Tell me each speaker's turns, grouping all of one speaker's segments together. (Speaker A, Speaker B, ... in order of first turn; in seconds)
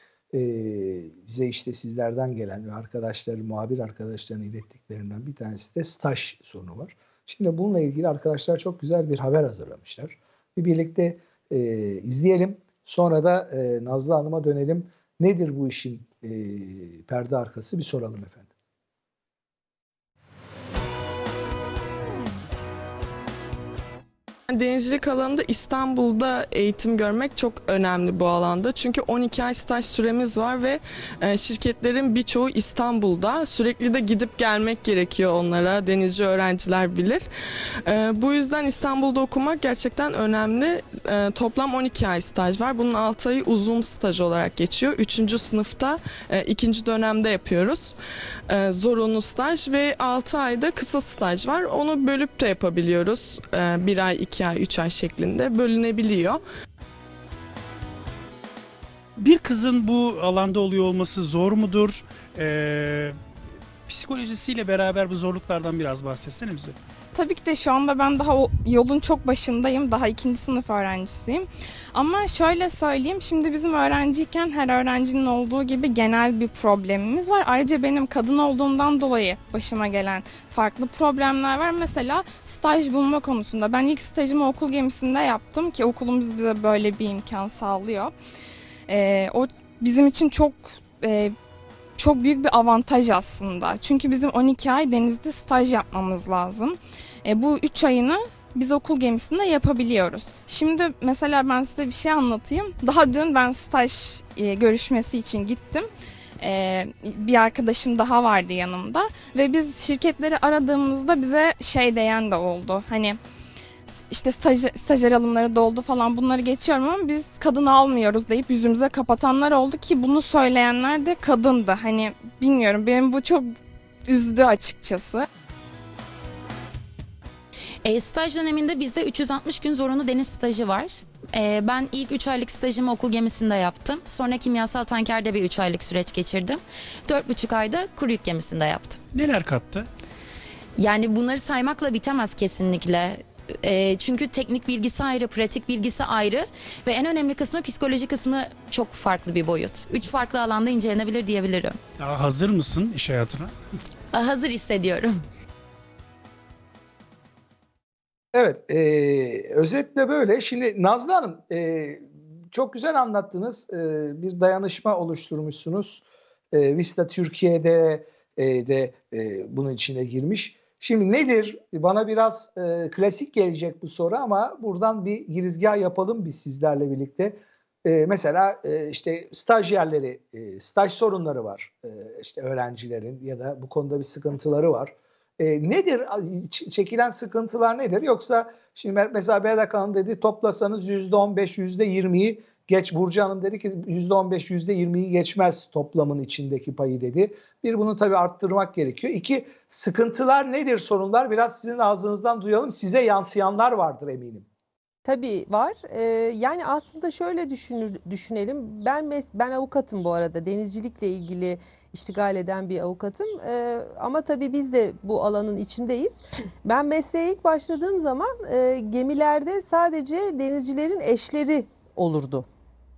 Speaker A: 0.3-18.5, 158.3-204.5
Speaker B: 24.5-37.2, 37.8-48.0, 48.5-56.4
Speaker C: 59.2-63.1, 63.9-66.8, 139.1-139.9, 152.0-153.5
Speaker D: 67.1-88.1, 88.9-91.3, 92.0-105.9, 106.4-113.2, 113.9-123.5, 124.1-125.2
Speaker E: 127.8-139.0, 140.8-151.8, 154.1-155.2
Speaker F: 205.0-222.4